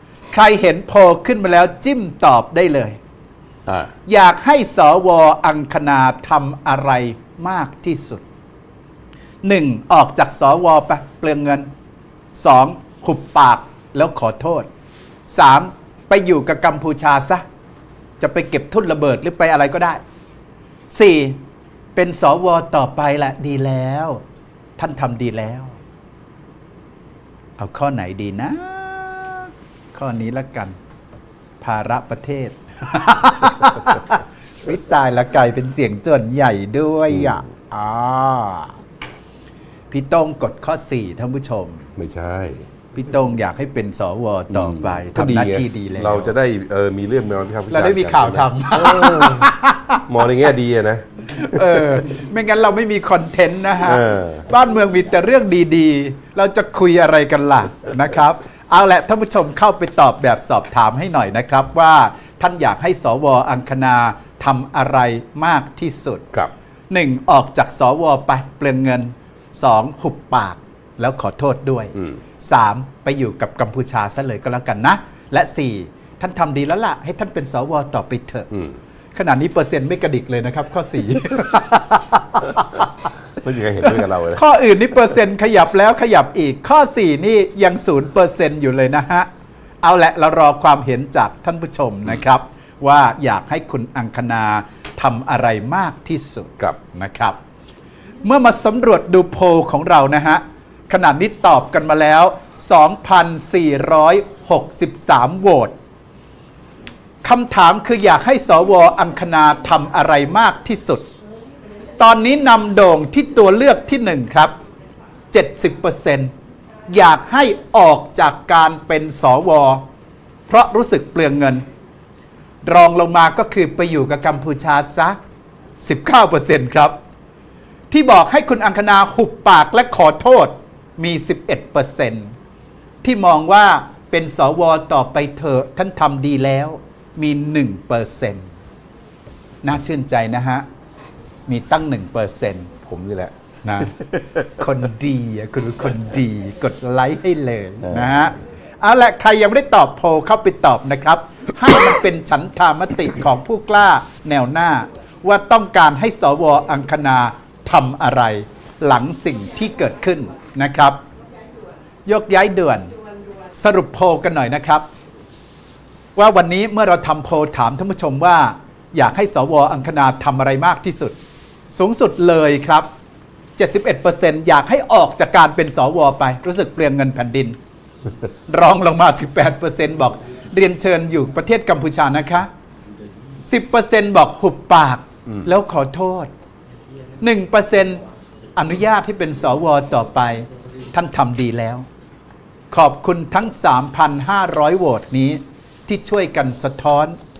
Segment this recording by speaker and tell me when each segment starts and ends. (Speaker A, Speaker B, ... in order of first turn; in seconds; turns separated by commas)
Speaker A: 0.3-3.0, Speaker A: 4.0-8.2, Speaker A: 9.4-11.7, Speaker A: 12.3-14.7, Speaker A: 15.3-17.4, Speaker A: 18.2-20.0, Speaker A: 20.9-21.4, Speaker A: 21.9-24.2, Speaker A: 24.8-25.8, Speaker A: 27.6-30.8, Speaker A: 31.6-37.9, Speaker B: 37.1-38.7, Speaker A: 39.9-41.9, Speaker B: 42.0-42.7, Speaker A: 42.9-46.3, Speaker B: 44.5-49.5, Speaker A: 47.7-50.0, Speaker B: 50.1-51.0, Speaker A: 51.3-66.3, Speaker B: 53.8-54.4, Speaker A: 66.9-78.5, Speaker A: 79.1-83.1, Speaker B: 83.4-84.4, Speaker A: 83.8-89.3, Speaker A: 89.8-97.4, Speaker A: 98.2-105.7, Speaker A: 107.2-111.0, Speaker A: 112.0-114.5, Speaker A: 115.3-116.3, Speaker A: 116.9-119.8, Speaker A: 120.5-121.6, Speaker A: 122.6-125.2, Speaker A: 125.8-127.0, Speaker A: 127.9-132.3, Speaker A: 133.0-138.5, Speaker A: 139.6-140.6, Speaker A: 141.5-161.0, Speaker A: 162.0-162.9, Speaker A: 163.5-164.8, Speaker A: 166.2-171.2, Speaker A: 171.7-172.9, Speaker A: 173.6-177.6, Speaker A: 178.5-182.5, Speaker A: 183.5-186.3, Speaker A: 187.2-188.0, Speaker A: 188.5-191.8, Speaker A: 192.7-197.2